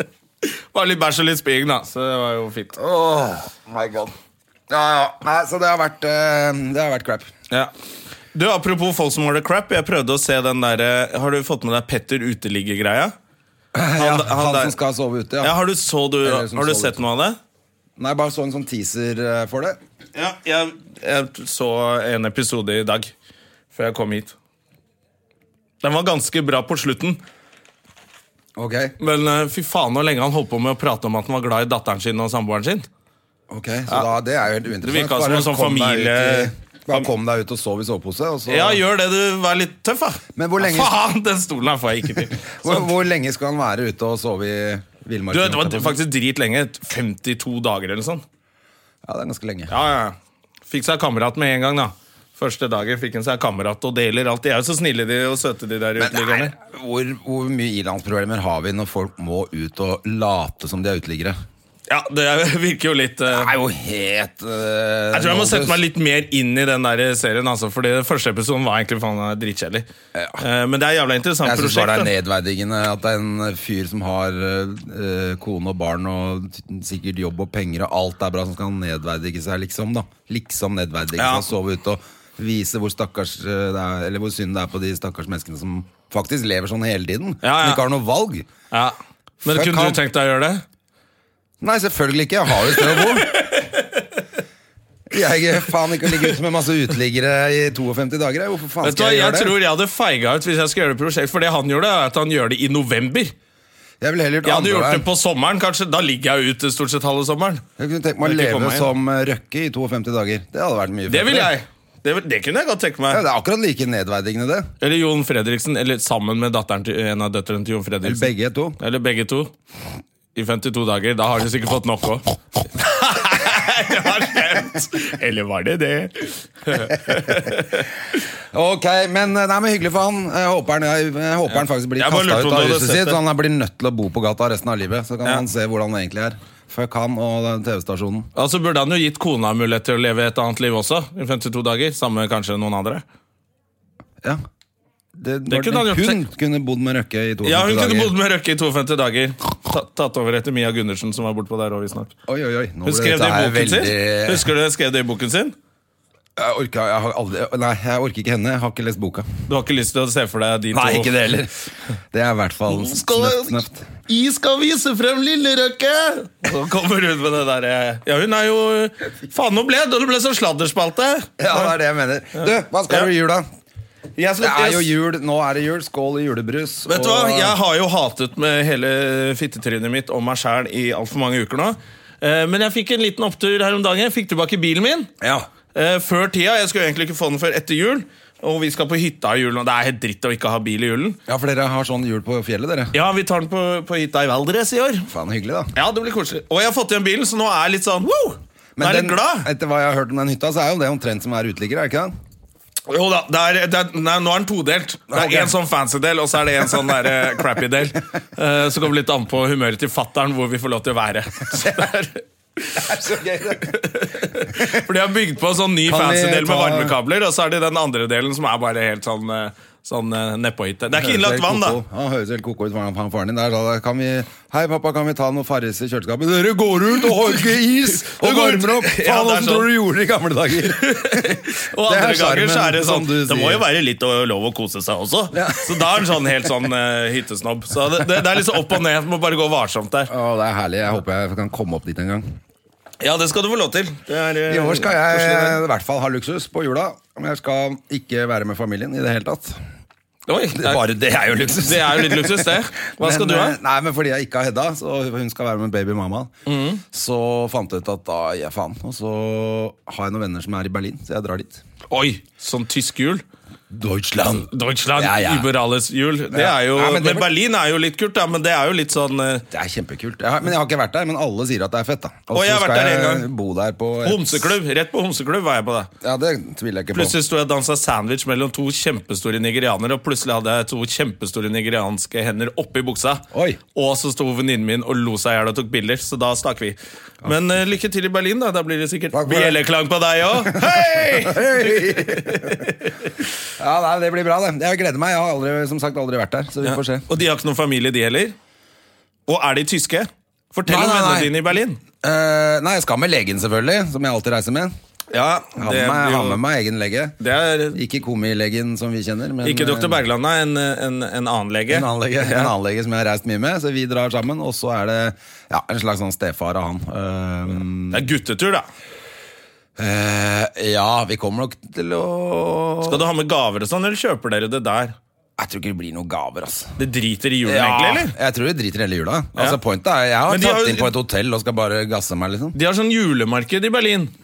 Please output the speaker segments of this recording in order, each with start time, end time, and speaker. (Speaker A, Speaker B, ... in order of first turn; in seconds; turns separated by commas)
Speaker A: 0.4-2.8, Speaker B: 2.8-4.1, Speaker B: 4.7-7.3, Speaker A: 8.3-13.1, Speaker B: 13.7-15.6, Speaker A: 13.9-14.7, Speaker A: 15.4-17.4, Speaker B: 16.2-17.0, Speaker B: 18.0-19.8, Speaker A: 20.1-23.1, Speaker A: 23.7-24.4, Speaker A: 25.8-27.2, Speaker B: 28.6-28.9, Speaker A: 29.0-32.9, Speaker B: 33.5-38.8, Speaker A: 34.8-37.1, Speaker A: 38.5-42.9, Speaker B: 40.4-40.9, Speaker B: 42.2-46.0, Speaker A: 45.3-48.2, Speaker B: 49.0-49.7, Speaker A: 49.7-50.2, Speaker A: 50.7-56.5, Speaker B: 56.0-61.4, Speaker A: 61.9-63.5, Speaker B: 63.3-65.8, Speaker A: 65.1-69.9, Speaker B: 70.2-70.4, Speaker A: 70.4-72.1, Speaker B: 71.4-88.5, Speaker A: 81.2-81.5, Speaker A: 87.4-87.8, Speaker A: 88.7-90.6, Speaker B: 89.5-90.0, Speaker B: 91.6-93.4, Speaker A: 92.8-94.1, Speaker B: 95.1-99.5, Speaker A: 96.0-96.3, Speaker A: 98.8-103.3, Speaker B: 104.0-105.1, Speaker A: 104.4-107.6, Speaker B: 107.8-111.5, Speaker A: 108.2-108.9, Speaker A: 111.1-113.2, Speaker B: 113.1-114.7, Speaker A: 114.8-118.3, Speaker B: 118.0-118.8, Speaker A: 118.8-119.5, Speaker A: 120.3-127.9, Speaker B: 126.9-127.5, Speaker B: 128.5-138.3, Speaker A: 132.0-133.2, Speaker A: 138.4-143.0, Speaker B: 145.2-148.1, Speaker A: 145.5-146.2, Speaker A: 147.4-152.1, Speaker B: 152.3-154.5, Speaker A: 152.8-155.6, Speaker B: 156.4-159.3, Speaker A: 159.5-161.4, Speaker B: 160.7-161.5, Speaker B: 162.1-163.9, Speaker A: 162.7-171.7, Speaker B: 171.4-173.5, Speaker A: 172.4-173.1, Speaker A: 174.2-174.9, Speaker B: 174.4-177.6, Speaker A: 176.9-185.1, Speaker B: 185.2-185.5, Speaker A: 185.7-191.2, Speaker B: 191.3-192.9, Speaker A: 192.9-195.1, Speaker B: 195.1-195.7, Speaker A: 195.7-199.5, Speaker B: 198.8-202.1, Speaker A: 202.9-212.8, Speaker B: 205.1-205.6, Speaker B: 212.8-213.8, Speaker A: 213.6-221.8, Speaker B: 214.4-214.8, Speaker B: 215.9-216.9, Speaker B: 220.9-233.6, Speaker A: 227.9-229.7, Speaker A: 230.8-240.1, Speaker B: 235.3-236.2, Speaker B: 240.1-242.4, Speaker A: 243.0-245.6, Speaker B: 244.5-249.6, Speaker A: 250.3-250.8, Speaker B: 250.5-256.3, Speaker A: 251.5-253.6, Speaker A: 256.5-256.8, Speaker B: 256.8-261.6, Speaker A: 261.9-263.2, Speaker B: 263.7-265.5, Speaker A: 264.5-269.4, Speaker B: 266.3-267.3, Speaker B: 269.5-274.6, Speaker A: 272.3-273.3, Speaker A: 274.0-275.9, Speaker B: 276.0-277.1, Speaker A: 276.9-292.9, Speaker B: 283.3-283.6, Speaker B: 289.1-289.6, Speaker B: 290.4-292.7, Speaker B: 293.6-297.1, Speaker A: 296.6-298.4, Speaker A: 299.3-301.8, Speaker B: 300.7-301.4, Speaker B: 302.0-304.7, Speaker A: 305.1-306.4, Speaker B: 305.6-307.2, Speaker A: 307.2-307.8, Speaker B: 307.7-310.0, Speaker A: 309.4-312.5, Speaker B: 311.7-318.1, Speaker A: 317.9-318.7, Speaker B: 319.8-323.1, Speaker A: 322.9-325.0, Speaker B: 325.4-326.8, Speaker A: 326.8-328.1, Speaker B: 327.4-332.6, Speaker A: 330.3-330.9, Speaker A: 332.5-334.1